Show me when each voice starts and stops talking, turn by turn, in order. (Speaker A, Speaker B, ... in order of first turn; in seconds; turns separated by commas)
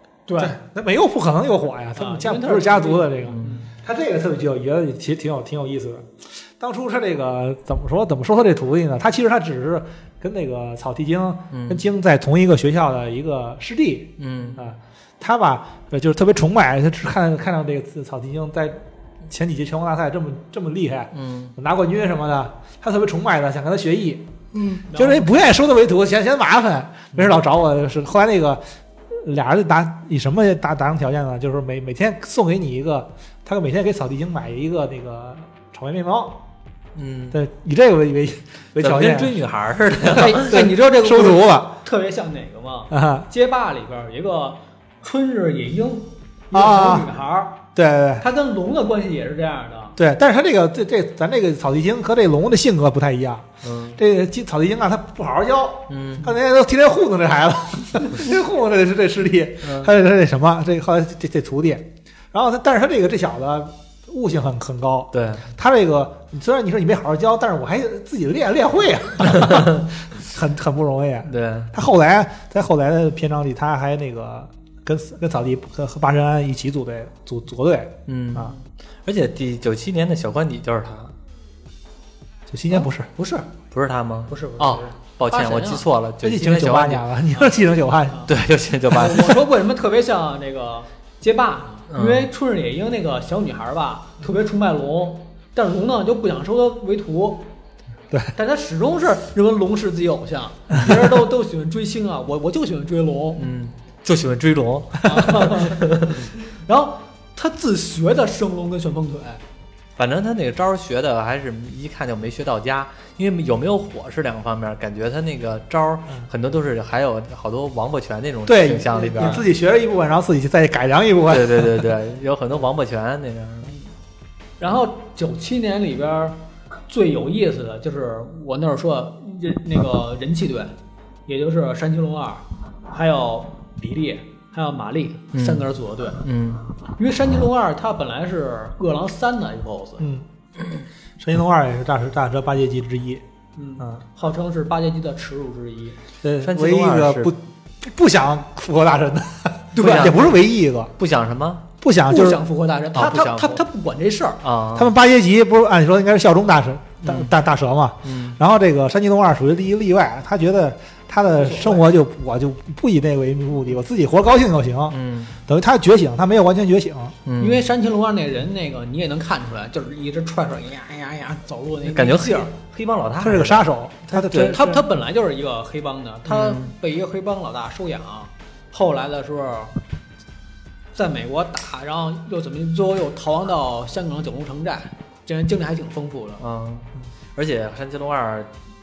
Speaker A: 0.3-0.6, Speaker B: 0.4-24.3, Speaker A: 1.9-3.7, Speaker C: 3.3-3.6, Speaker C: 11.5-11.8, Speaker C: 14.2-14.6, Speaker C: 21.1-21.5, Speaker A: 24.7-25.3, Speaker B: 24.9-36.4, Speaker C: 27.1-27.4, Speaker C: 36.9-37.4, Speaker B: 37.3-39.4, Speaker C: 38.8-40.6, Speaker A: 40.1-47.6, Speaker B: 40.3-41.8, Speaker B: 42.9-43.3, Speaker B: 46.5-47.1, Speaker B: 47.7-48.2, Speaker A: 48.2-50.0, Speaker B: 50.0-78.5, Speaker C: 53.6-54.0, Speaker C: 55.9-56.3, Speaker C: 59.6-59.9, Speaker C: 65.1-65.5, Speaker C: 69.2-69.9, Speaker C: 71.2-71.7, Speaker C: 78.1-81.1, Speaker B: 82.5-83.1, Speaker C: 82.7-87.1, Speaker A: 84.3-85.9, Speaker B: 86.2-88.3, Speaker C: 88.3-89.4, Speaker A: 88.9-97.5, Speaker C: 91.9-92.3, Speaker A: 98.3-103.5, Speaker C: 103.4-106.3, Speaker A: 105.0-109.4, Speaker C: 110.0-119.5, Speaker B: 118.5-121.9, Speaker A: 119.2-119.4, Speaker C: 121.3-123.7, Speaker A: 124.6-130.8, Speaker A: 131.3-136.2, Speaker C: 135.3-136.6, Speaker A: 136.9-140.1, Speaker B: 140.0-140.2, Speaker B: 141.2-143.2, Speaker A: 143.6-146.0, Speaker B: 146.2-150.9, Speaker C: 146.4-147.3, Speaker A: 149.7-150.4, Speaker C: 149.8-150.4, Speaker C: 151.0-151.7, Speaker B: 151.8-152.4, Speaker A: 152.1-154.4, Speaker C: 152.9-153.6, Speaker C: 154.4-154.9, Speaker B: 154.7-167.2, Speaker C: 157.0-157.3, Speaker C: 158.0-158.4, Speaker A: 161.3-161.9, Speaker C: 164.9-165.3, Speaker C: 167.2-167.6, Speaker A: 167.4-172.5, Speaker C: 171.8-174.7, Speaker B: 173.2-174.8, Speaker A: 174.3-179.8, Speaker C: 176.3-176.7, Speaker A: 180.9-186.4, Speaker C: 186.4-188.5